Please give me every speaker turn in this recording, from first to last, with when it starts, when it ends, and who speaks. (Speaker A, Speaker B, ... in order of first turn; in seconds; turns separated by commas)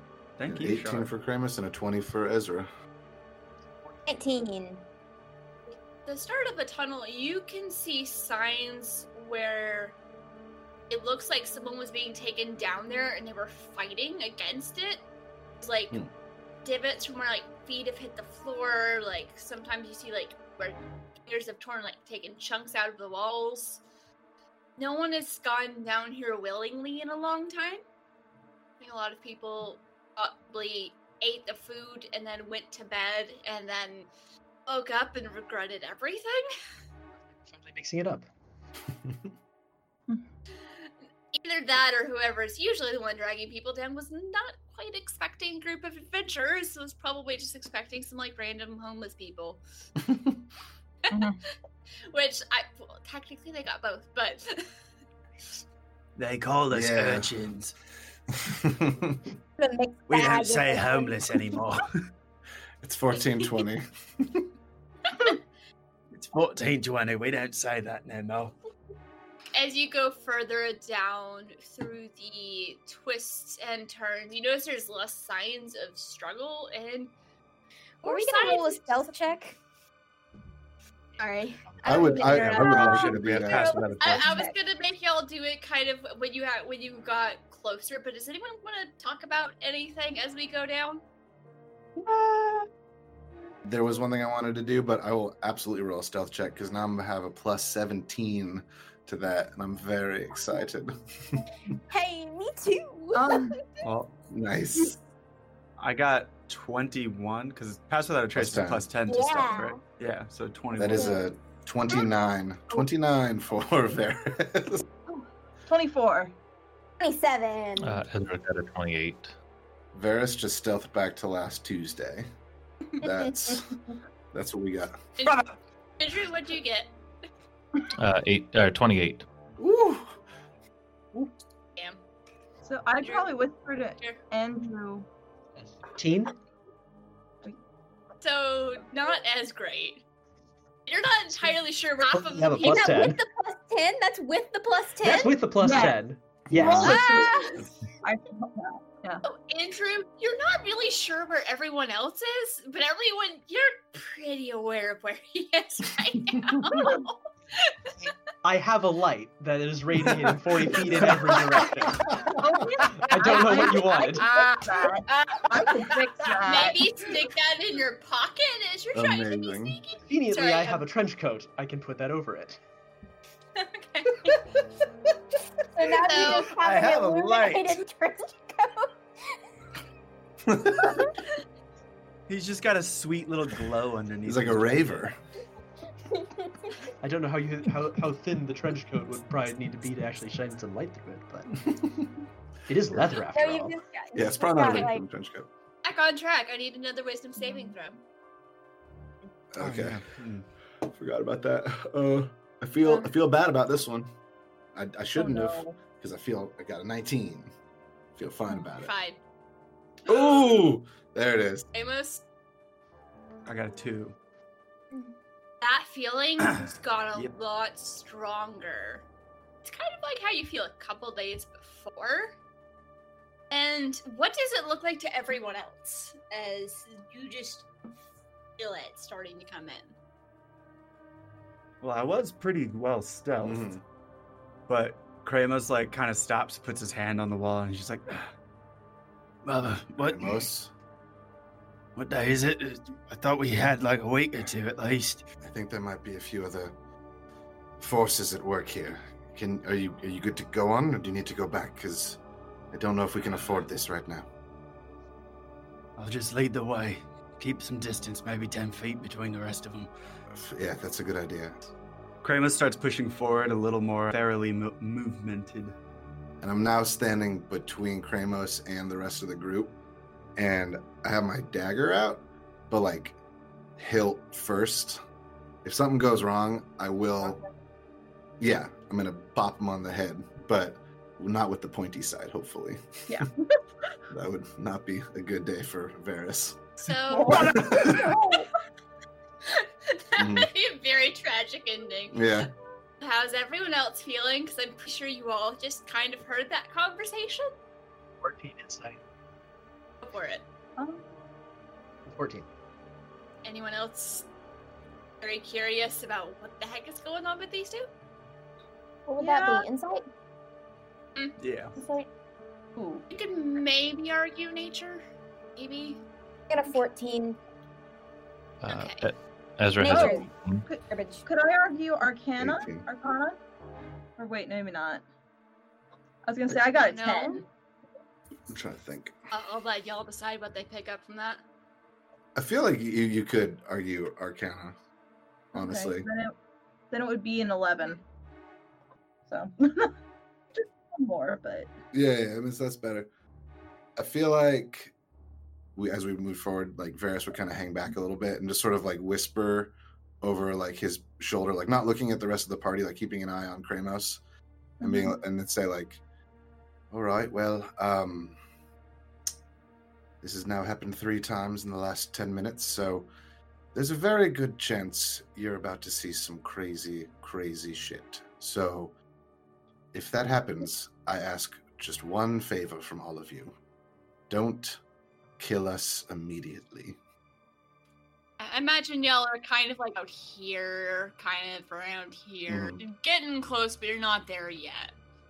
Speaker A: 0.4-1.1, Speaker B: 0.5-2.7, Speaker C: 4.1-4.8, Speaker D: 6.0-10.0, Speaker D: 10.9-15.0, Speaker D: 15.6-16.0, Speaker D: 16.6-23.8, Speaker D: 24.8-27.8, Speaker D: 28.8-34.1, Speaker D: 34.7-36.5, Speaker E: 37.5-38.3, Speaker D: 41.3-49.6, Speaker B: 50.0-50.4, Speaker F: 51.1-51.4, Speaker D: 52.1-54.6, Speaker A: 56.2-57.7, Speaker B: 56.7-57.3, Speaker B: 58.3-59.3, Speaker C: 59.6-61.6, Speaker A: 60.1-61.8, Speaker B: 62.8-64.5, Speaker A: 66.1-68.5, Speaker D: 69.5-77.1, Speaker D: 78.0-79.2, Speaker C: 78.0-79.6, Speaker C: 81.2-84.5, Speaker B: 81.8-84.1, Speaker A: 82.1-84.4, Speaker D: 84.0-91.0, Speaker F: 92.2-92.6, Speaker B: 93.7-101.4, Speaker C: 101.8-103.8, Speaker F: 103.1-103.6, Speaker A: 103.8-104.1, Speaker B: 104.3-105.0, Speaker A: 105.8-111.2, Speaker B: 108.3-108.9, Speaker C: 109.1-109.8, Speaker B: 110.8-114.8, Speaker C: 110.9-111.3, Speaker F: 115.1-116.3, Speaker C: 117.0-118.0, Speaker G: 117.8-119.3, Speaker B: 119.9-122.3, Speaker B: 123.0-123.7, Speaker B: 124.3-125.1, Speaker D: 125.2-125.5, Speaker D: 126.0-126.9, Speaker G: 128.0-129.2, Speaker B: 129.6-130.2, Speaker F: 132.6-135.1, Speaker D: 133.0-133.5, Speaker E: 135.6-136.3, Speaker D: 138.2-140.0, Speaker D: 140.9-143.1, Speaker E: 142.1-143.2, Speaker C: 142.6-145.4, Speaker E: 145.0-147.0, Speaker F: 145.6-146.0, Speaker F: 146.5-149.2, Speaker D: 146.7-147.6, Speaker D: 149.2-157.8, Speaker E: 158.4-162.0, Speaker F: 162.3-166.8, Speaker E: 162.9-164.2, Speaker D: 163.2-170.8, Speaker B: 168.9-169.8, Speaker E: 170.1-172.6, Speaker D: 173.6-174.4, Speaker C: 175.8-178.9, Speaker D: 175.8-176.5, Speaker A: 176.2-177.8, Speaker B: 180.5-180.9, Speaker A: 182.3-185.1, Speaker B: 184.2-185.2, Speaker C: 186.1-186.7, Speaker E: 187.0-191.6, Speaker B: 191.7-192.1, Speaker E: 192.7-193.8, Speaker C: 193.3-195.0, Speaker B: 194.1-195.5, Speaker D: 195.8-198.0, Speaker B: 199.6-200.1, Speaker A: 199.6-200.5, Speaker B: 200.9-204.1, Speaker B: 204.8-207.5, Speaker F: 205.2-205.8, Speaker B: 208.2-208.9, Speaker D: 208.8-209.2, Speaker B: 210.1-211.7, Speaker D: 210.1-210.6, Speaker D: 211.7-212.2, Speaker A: 213.5-214.2, Speaker D: 215.6-219.1, Speaker A: 216.5-217.3, Speaker D: 219.6-222.3, Speaker D: 223.5-227.7, Speaker D: 228.6-229.9, Speaker A: 231.8-233.7, Speaker B: 233.4-233.8, Speaker A: 234.7-238.3, Speaker A: 239.4-240.3, Speaker B: 240.0-240.7, Speaker A: 242.0-245.2, Speaker B: 245.4-246.8, Speaker B: 247.8-252.2, Speaker B: 252.7-254.3, Speaker A: 256.0-259.9, Speaker B: 260.3-261.6, Speaker A: 262.2-265.8, Speaker B: 266.4-269.8, Speaker B: 270.4-273.2, Speaker B: 273.8-275.0, Speaker B: 275.6-277.4, Speaker B: 278.4-283.2, Speaker F: 283.1-283.3, Speaker B: 284.1-286.7, Speaker D: 286.8-288.1, Speaker F: 287.1-288.5, Speaker B: 287.6-288.1, Speaker D: 289.5-292.3, Speaker B: 290.2-290.5, Speaker B: 292.1-292.5, Speaker D: 293.0-297.5, Speaker E: 298.2-299.0, Speaker D: 300.0-300.4, Speaker F: 300.8-301.1, Speaker E: 302.1-302.5, Speaker D: 303.4-304.3, Speaker D: 305.2-307.9, Speaker C: 309.1-310.0, Speaker F: 309.2-309.7, Speaker A: 311.4-311.7, Speaker C: 311.8-312.1, Speaker F: 312.8-313.0, Speaker D: 313.1-315.0, Speaker D: 315.6-316.0, Speaker C: 316.5-317.4, Speaker G: 318.6-320.7, Speaker D: 318.7-319.1, Speaker C: 319.8-320.3, Speaker F: 319.8-323.4, Speaker C: 320.9-321.2, Speaker B: 322.4-322.9, Speaker F: 324.2-325.0, Speaker F: 326.3-327.4, Speaker D: 326.6-327.4, Speaker B: 328.5-329.1, Speaker D: 329.3-331.4, Speaker B: 332.4-334.8, Speaker F: 335.5-336.3, Speaker B: 335.5-336.1, Speaker F: 336.9-338.0, Speaker F: 339.3-339.9, Speaker F: 340.5-341.7, Speaker B: 341.9-343.1, Speaker B: 344.0-344.9, Speaker B: 345.8-354.2, Speaker F: 354.8-355.2, Speaker B: 354.8-356.0, Speaker B: 356.9-358.4, Speaker B: 360.2-363.1, Speaker B: 363.7-368.9, Speaker B: 369.9-373.5, Speaker B: 374.3-374.8, Speaker B: 375.4-377.0, Speaker D: 378.4-384.9, Speaker B: 382.5-382.8